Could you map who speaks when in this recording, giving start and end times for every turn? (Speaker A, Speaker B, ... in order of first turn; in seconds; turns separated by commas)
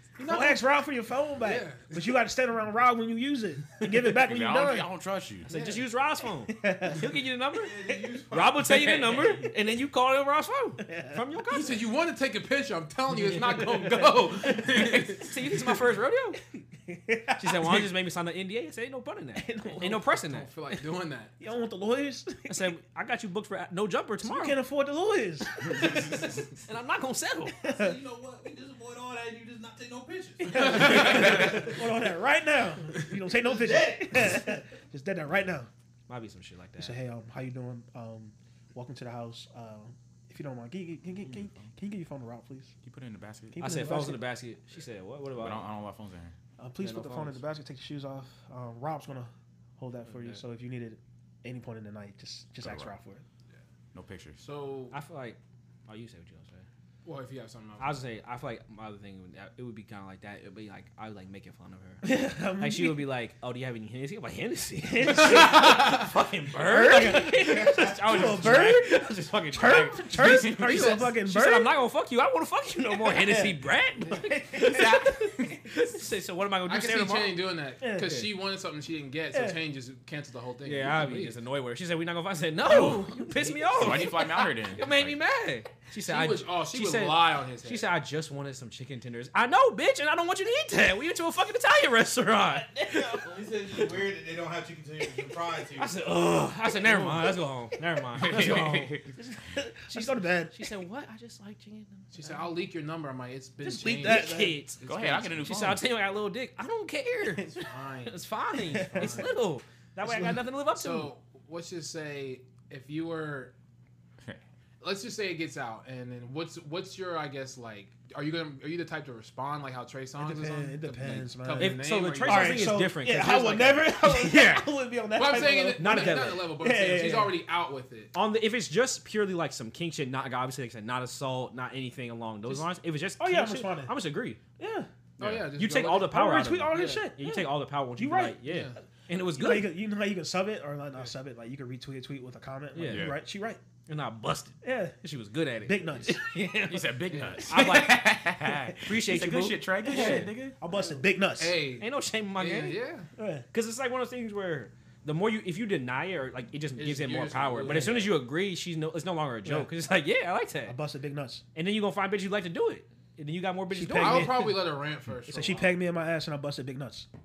Speaker A: 0.2-0.7, Speaker B: 0.2-4.9, Speaker A: 1.4-2.2, Speaker C: 4.1-5.5, Speaker D: 5.5-11.9, Speaker B: 5.5-5.9, Speaker B: 6.4-7.2, Speaker E: 7.5-8.9, Speaker C: 8.7-9.4, Speaker B: 10.8-11.2, Speaker A: 11.5-15.4, Speaker D: 13.2-16.4, Speaker B: 16.6-17.9, Speaker D: 17.4-20.5, Speaker B: 19.4-20.1, Speaker A: 20.2-21.3, Speaker B: 21.4-22.7, Speaker D: 22.5-24.6, Speaker B: 24.2-26.2, Speaker D: 25.7-27.6, Speaker B: 27.6-28.0, Speaker E: 27.6-31.8, Speaker B: 30.4-35.7, Speaker E: 33.2-34.4, Speaker D: 36.1-37.0, Speaker B: 36.8-42.7, Speaker C: 41.3-41.7, Speaker C: 42.8-43.8, Speaker B: 43.5-44.3, Speaker D: 43.6-45.7, Speaker C: 45.3-46.3, Speaker B: 46.6-53.2, Speaker D: 46.8-47.4, Speaker D: 50.1-50.4, Speaker C: 52.6-52.9, Speaker C: 53.9-54.4, Speaker A: 54.4-54.9, Speaker D: 54.9-56.6, Speaker A: 57.0-58.0, Speaker D: 57.8-77.4, Speaker B: 62.0-63.1, Speaker B: 64.9-65.9, Speaker B: 66.6-71.8, Speaker C: 70.2-71.1, Speaker B: 73.0-75.1, Speaker C: 74.5-75.8, Speaker A: 76.7-81.3, Speaker B: 77.8-78.3, Speaker B: 79.3-79.6, Speaker D: 80.6-93.9, Speaker C: 82.6-83.2, Speaker B: 82.9-84.0, Speaker C: 83.7-85.2, Speaker A: 86.0-87.9, Speaker B: 92.9-93.2, Speaker E: 93.2-96.0, Speaker D: 95.7-99.0, Speaker A: 96.9-97.2, Speaker C: 98.2-99.1, Speaker B: 99.2-100.6, Speaker D: 99.9-102.3, Speaker A: 102.1-105.5, Speaker B: 103.6-104.6, Speaker D: 103.8-104.8, Speaker C: 104.8-105.8, Speaker D: 105.3-111.1, Speaker A: 107.5-109.3, Speaker B: 108.6-109.3, Speaker B: 110.0-110.3, Speaker A: 110.7-113.5, Speaker A: 114.8-122.9, Speaker B: 120.2-127.4, Speaker D: 121.6-124.7, Speaker A: 125.1-128.1, Speaker D: 125.3-126.5, Speaker D: 128.1-134.4, Speaker A: 132.4-132.7, Speaker B: 133.2-134.0, Speaker B: 134.6-134.9, Speaker A: 135.2-136.2, Speaker C: 135.2-135.5, Speaker D: 135.2-139.7, Speaker B: 135.9-138.5, Speaker A: 136.7-137.1, Speaker A: 138.4-138.8, Speaker B: 139.3-143.6, Speaker D: 142.7-143.1, Speaker C: 142.8-143.2, Speaker D: 143.8-148.2, Speaker B: 144.6-145.0, Speaker B: 145.6-146.2, Speaker C: 146.6-150.5, Speaker A: 147.1-147.5, Speaker D: 148.8-150.4, Speaker B: 149.1-151.6, Speaker A: 149.9-150.3, Speaker A: 151.4-153.1, Speaker D: 151.8-152.8, Speaker B: 153.2-153.4, Speaker D: 153.5-160.8, Speaker A: 156.8-158.2, Speaker B: 157.6-158.1, Speaker B: 159.4-159.7, Speaker B: 160.6-161.4, Speaker D: 161.5-164.5, Speaker B: 163.7-164.6, Speaker A: 163.9-165.8, Speaker B: 165.3-167.1